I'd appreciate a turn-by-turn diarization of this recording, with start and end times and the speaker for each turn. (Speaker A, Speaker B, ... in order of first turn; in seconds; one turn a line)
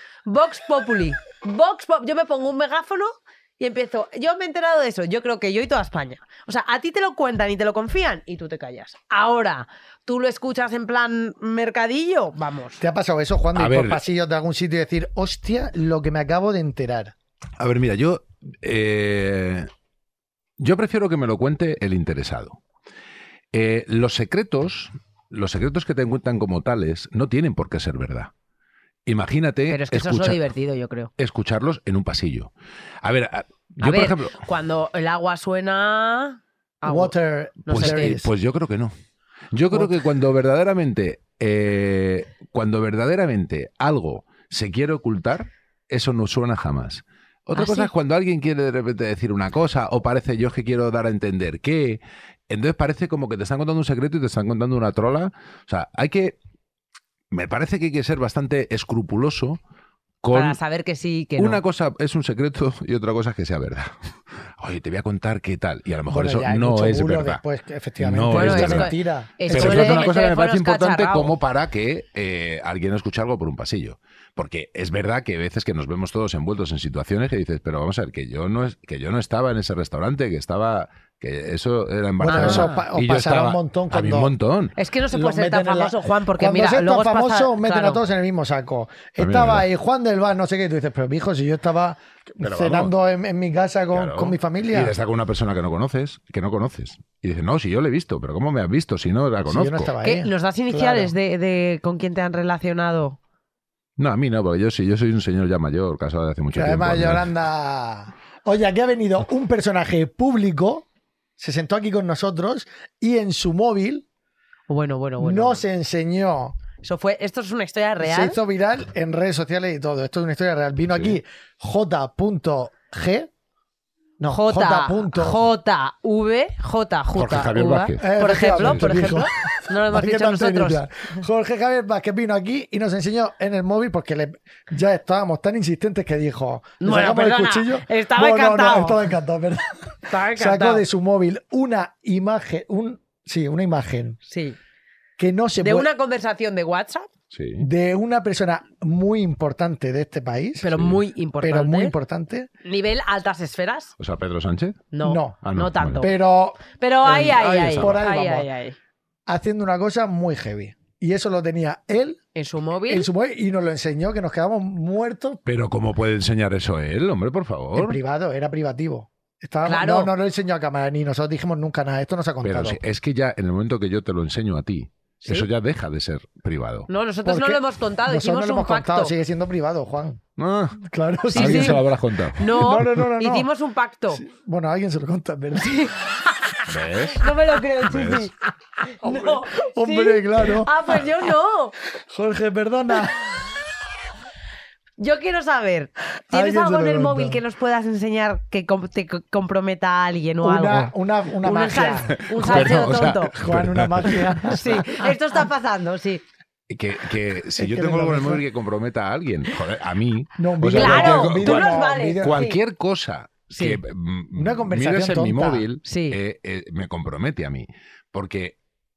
Speaker A: 0.2-12.8
Speaker B: 12.8-17.1
Speaker C: 13.5-14.0
Speaker C: 17.6-19.7
Speaker C: 20.6-22.6
Speaker C: 23.5-28.3
Speaker C: 29.1-30.4
Speaker A: 29.7-31.1
Speaker C: 31.2-32.5
Speaker C: 33.0-34.4
Speaker A: 33.8-37.1
Speaker B: 36.8-38.3
Speaker A: 37.6-38.2
Speaker C: 37.7-38.9
Speaker C: 39.5-56.4
Speaker A: 47.5-47.9
Speaker C: 57.3-59.6
Speaker C: 60.2-60.6
Speaker A: 60.3-61.6
Speaker C: 61.4-63.9
Speaker C: 64.6-67.4
Speaker B: 66.1-70.1
Speaker C: 68.0-68.9
Speaker A: 68.3-71.3
Speaker C: 69.5-84.8
Speaker B: 82.2-84.3
Speaker A: 82.3-82.8
Speaker A: 84.8-88.0
Speaker B: 85.1-94.9
Speaker C: 89.2-89.7
Speaker C: 92.4-92.9
Speaker C: 93.9-99.9
Speaker B: 99.5-101.1
Speaker A: 100.0-103.2
Speaker C: 104.0-107.3
Speaker B: 106.5-110.8
Speaker B: 111.4-114.0
Speaker A: 114.7-115.6
Speaker B: 115.2-116.5
Speaker A: 116.8-118.4
Speaker B: 118.0-123.3
Speaker C: 120.9-121.2
Speaker B: 124.2-125.4
Speaker A: 124.3-130.8
Speaker C: 127.1-129.2
Speaker B: 128.0-144.2
Speaker A: 136.8-139.0
Speaker A: 140.1-140.8
Speaker A: 144.3-144.6
Speaker B: 145.2-145.9
Speaker A: 145.6-147.1
Speaker C: 147.3-147.7
Speaker B: 147.6-150.7
Speaker A: 150.6-151.9
Speaker C: 150.7-151.0
Speaker B: 151.4-152.5
Speaker A: 152.6-153.9
Speaker C: 154.0-154.9
Speaker A: 154.9-156.2
Speaker B: 155.0-155.4
Speaker C: 155.4-156.0
Speaker B: 156.0-158.5
Speaker A: 156.7-158.8
Speaker C: 157.6-158.0
Speaker B: 159.3-162.2
Speaker A: 162.3-163.1
Speaker B: 162.9-165.4
Speaker C: 165.4-168.0
Speaker B: 167.7-172.8
Speaker A: 169.6-170.1
Speaker C: 172.4-176.9
Speaker A: 176.9-179.1
Speaker B: 177.2-180.2
Speaker C: 180.4-182.4
Speaker B: 180.8-181.8
Speaker A: 181.3-181.8
Speaker A: 182.4-184.2
Speaker B: 182.4-183.5
Speaker B: 184.1-185.9
Speaker A: 185.5-188.3
Speaker C: 186.7-187.3
Speaker C: 187.8-188.3
Speaker A: 188.9-191.7
Speaker B: 189.0-190.7
Speaker B: 192.0-193.3
Speaker A: 195.0-203.3
Speaker B: 196.3-197.4
Speaker B: 200.4-204.9
Speaker C: 202.2-204.6
Speaker A: 204.5-206.2
Speaker C: 206.7-218.6
Speaker B: 207.6-208.4
Speaker B: 210.4-212.4
Speaker A: 210.7-212.6
Speaker A: 213.5-213.8
Speaker B: 214.3-215.6
Speaker A: 215.8-216.2